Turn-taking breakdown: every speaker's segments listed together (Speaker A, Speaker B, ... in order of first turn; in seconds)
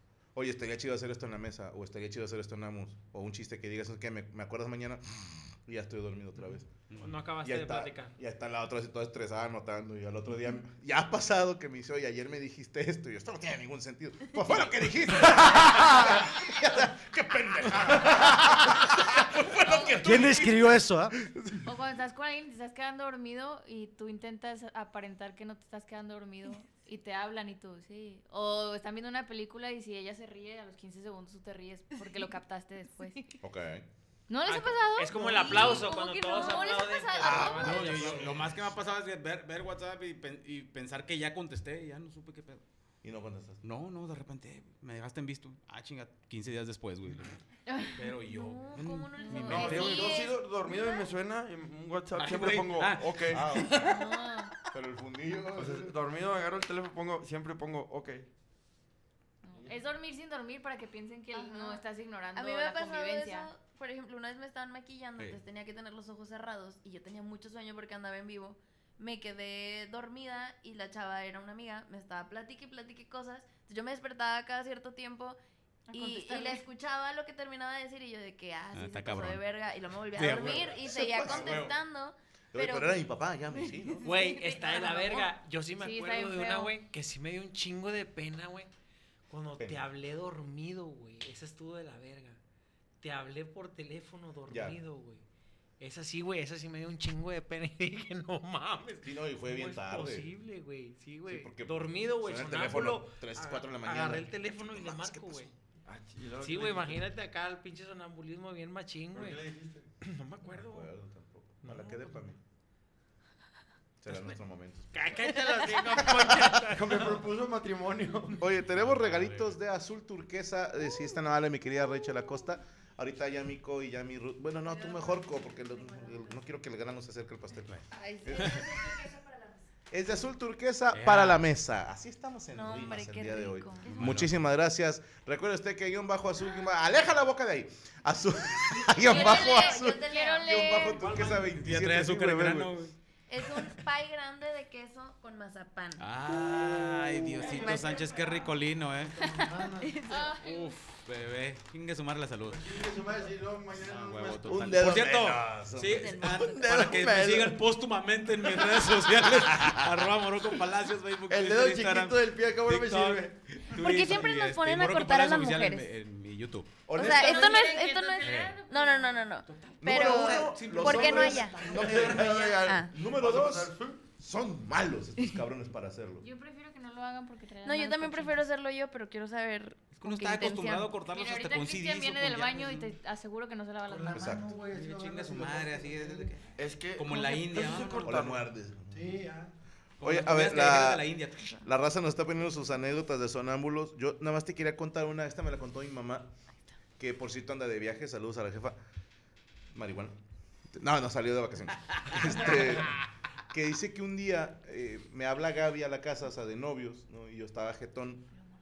Speaker A: 0.3-6.7, 7.4-21.6, 33.4-33.9, 37.2-38.2, 43.0-43.6, 53.3-53.9, 54.7-55.9, 80.6-81.7, 82.5-84.1, 94.5-94.8, 99.0-100.3, 101.3-105.5, 110.5-112.4, 114.0-115.3, 116.0-116.5, 118.4-128.6, 129.9-142.7, 154.5-156.2, 166.9-167.5, 169.8-176.3, 184.2-184.5, 188.0-189.2, 190.0-196.3, 197.0-198.8, 199.7-200.2, 200.7-208.3
Speaker B: 7.0-8.2, 34.5-38.5, 84.0-88.7, 89.3-92.4, 93.0-95.2, 95.8-105.5, 106.4-109.4, 110.0-110.9, 111.7-112.0, 114.9-117.2
Speaker C: 20.0-21.2, 149.1-149.9, 183.9-186.4, 188.9-189.5
Speaker D: 21.6-33.2, 34.3-38.1, 49.2-50.3, 53.9-54.5, 59.4-63.5, 75.9-76.7, 85.8-86.7, 139.1-141.0, 150.1-150.7, 167.0-169.3, 176.2-178.4, 181.1-184.3
Speaker E: 37.6-42.6, 43.6-47.4, 48.0-50.0, 52.1-54.1, 78.7-79.5, 80.2-81.8, 118.7-119.5, 130.9-131.4, 133.9-134.3, 141.1-142.9, 146.0-149.2, 150.4-152.7, 153.8-166.9, 168.2-168.6, 169.5-172.2, 179.9-182.9, 184.7-186.4, 186.9-188.3, 190.0-191.5
Speaker F: 48.3-51.1, 61.3-61.8, 62.4-75.4, 75.9-85.3, 124.6-126.5, 127.9-129.7, 132.5-134.2, 138.9-141.0, 143.3-146.1, 147.3-148.5, 149.8-150.4, 155.9-156.6, 163.7-165.9, 166.9-171.7, 172.3-172.9, 177.6-180.9
Speaker G: 49.5-53.5, 55.5-58.3, 105.9-107.0, 109.1-109.9, 116.7-118.4, 152.5-154.7, 156.4-157.6, 161.3-163.4, 171.5-174.0, 186.6-188.5